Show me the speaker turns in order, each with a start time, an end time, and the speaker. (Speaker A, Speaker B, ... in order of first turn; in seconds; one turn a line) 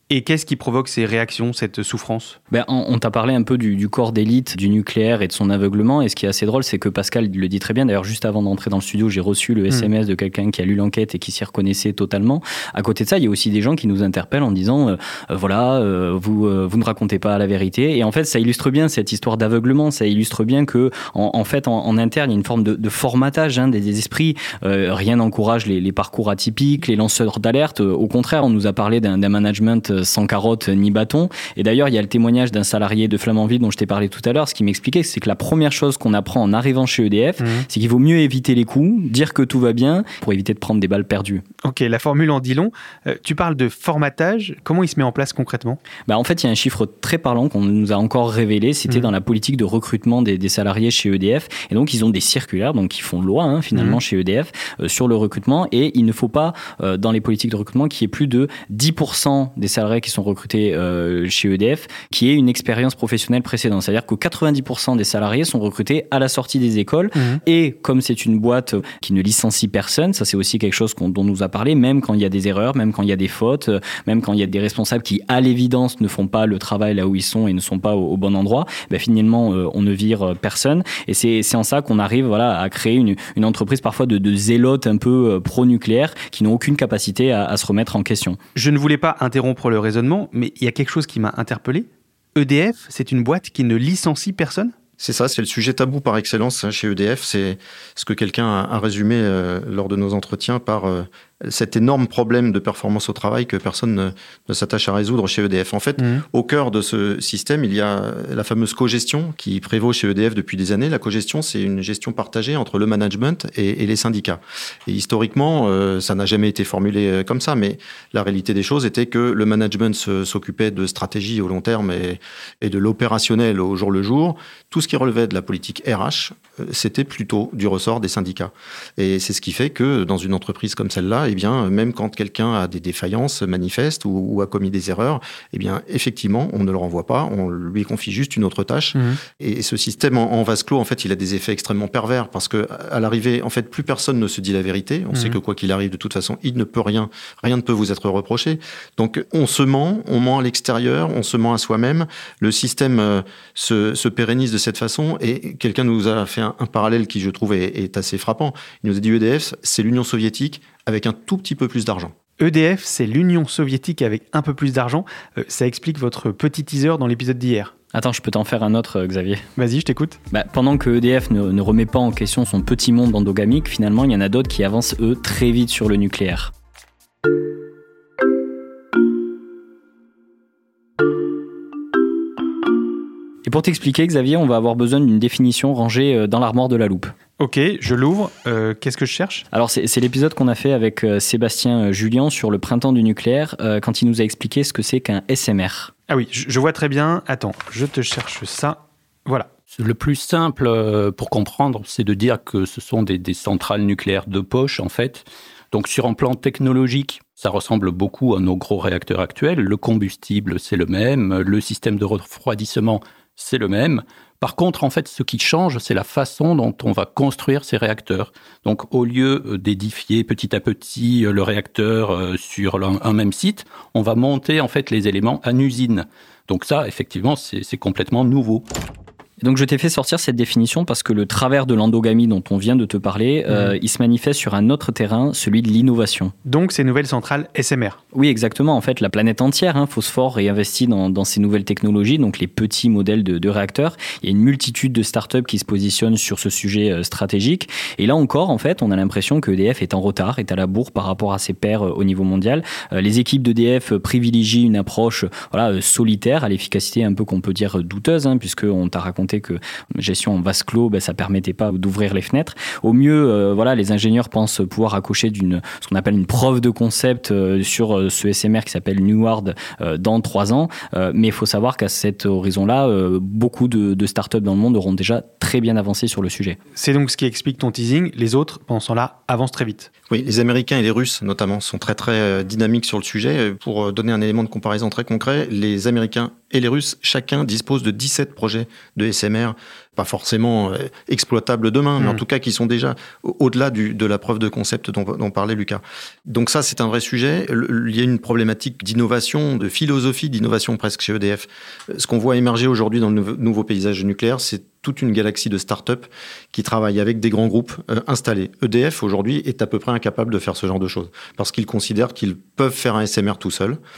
Speaker A: 0.1-2.4
Speaker B: 2.5-41.4
Speaker A: 37.4-37.6
Speaker A: 41.6-45.8
Speaker B: 46.1-88.4
Speaker A: 53.8-54.0
Speaker A: 88.5-94.8
Speaker C: 95.0-162.1
Speaker A: 138.9-139.2
Speaker A: 145.1-145.4
Speaker A: 162.4-167.7
Speaker B: 167.9-169.4
Speaker A: 169.6-170.2
Speaker B: 170.3-176.5
Speaker B: 183.4-187.1
Speaker A: 187.4-189.4
Speaker B: 189.5-195.9
Speaker A: 196.1-199.5
Speaker D: 199.8-228.6
Speaker B: 229.4-236.3
Speaker A: 236.4-238.0
Speaker B: 238.1-276.6
Speaker A: 276.8-279.9
Speaker C: 280.1-313.8